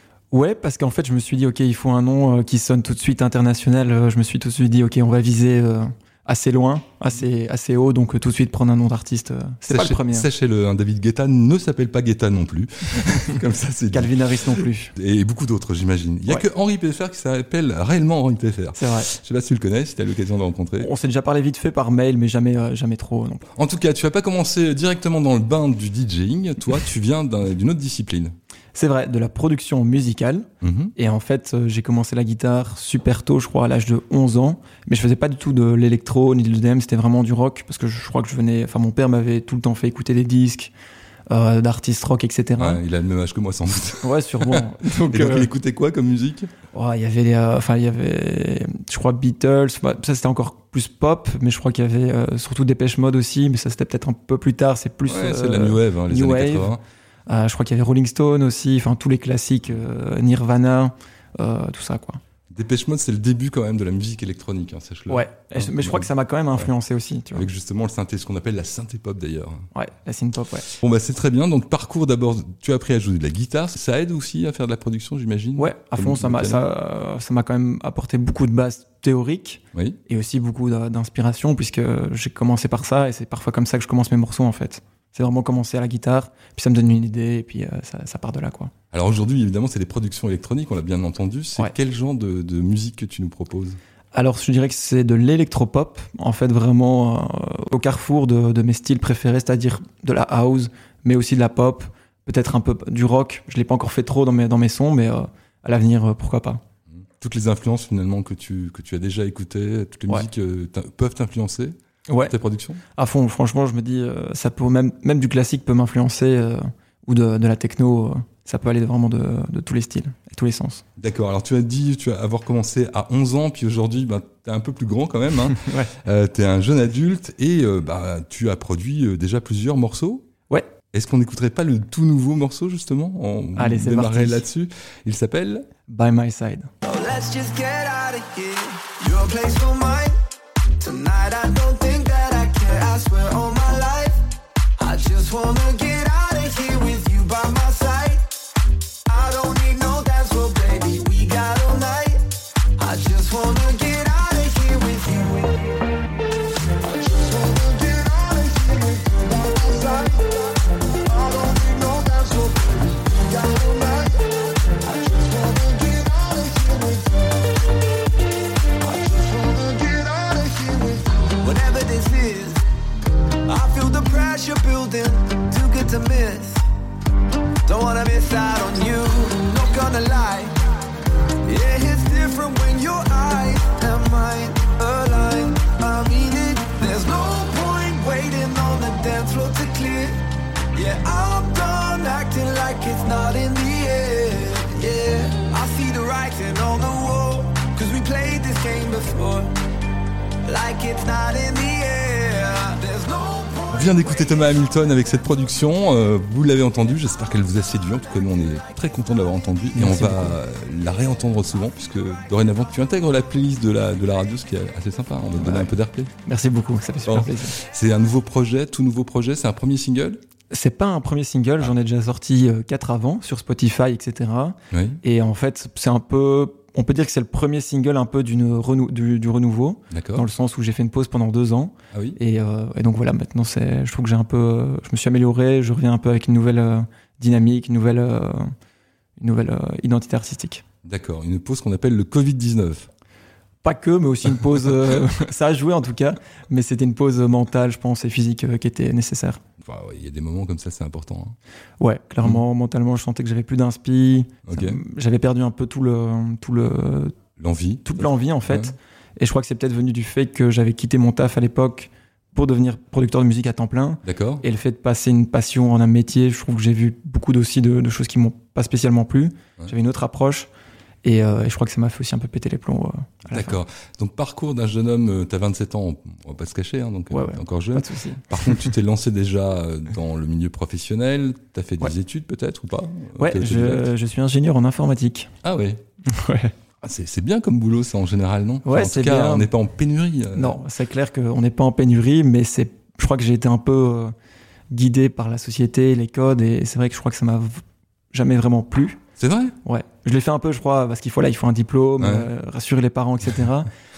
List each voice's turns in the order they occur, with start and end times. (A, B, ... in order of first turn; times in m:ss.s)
0:00.3-0:10.3 A
0:09.7-0:20.9 B
0:13.9-0:14.9 A
0:18.8-0:19.1 A
0:20.8-0:23.4 A
0:23.5-0:28.3 B
0:28.7-0:40.7 A
0:30.6-0:30.9 B
0:41.3-0:42.8 A
0:42.6-0:46.5 B
0:44.0-0:45.5 A
0:46.7-0:56.7 A
0:55.1-0:56.8 B
0:57.3-1:02.2 A
1:02.5-1:06.1 B
1:05.1-1:07.5 A
1:07.3-1:09.6 B
1:09.7-1:10.7 A
1:10.7-1:16.7 B
1:15.6-1:28.7 A
1:19.7-1:20.0 B
1:28.9-1:33.8 B
1:34.1-1:46.6 A
1:47.2-1:51.7 B
1:52.1-1:52.3 A
1:52.2-1:52.8 B
1:53.0-2:00.8 A
2:01.0-2:10.2 B
2:05.5-2:05.9 A
2:10.9-2:15.7 B
2:13.6-2:14.4 A
2:15.9-2:16.7 A
2:16.8-2:20.2 C
2:20.7-2:24.2 C
2:24.8-2:35.9 C
2:36.6-2:47.6 C
2:48.6-2:52.7 C
2:53.3-2:56.6 C
2:57.6-3:00.7 C
3:01.4-3:19.5 C
3:20.4-3:24.4 C
3:23.7-3:36.1 B
3:29.7-3:30.4 A
3:35.4-3:35.7 A
3:36.2-3:37.6 A
3:37.1-3:40.2 B
3:40.5-3:58.5 A
3:44.7-3:45.0 B
3:49.9-3:50.2 B
3:51.9-3:52.2 B
3:59.2-4:00.6 A
4:00.8-4:02.9 B
4:03.6-4:09.4 A
4:09.6-4:11.4 B
4:11.8-4:17.2 A
4:14.5-4:14.8 B
4:17.4-4:18.7 B
4:17.8-4:30.5 A
4:24.0-4:24.4 B
4:31.0-4:33.6 A
4:33.3-4:43.8 B
4:37.1-4:38.7 A
4:43.2-4:45.3 A
4:45.4-4:45.8 B
4:46.1-4:46.5 A
4:46.8-4:50.6 B
4:48.6-4:49.5 A
4:50.3-4:54.1 A
4:54.7-4:59.0 A
4:59.2-4:59.6 B
4:59.6-5:03.7 A
5:02.0-5:02.3 B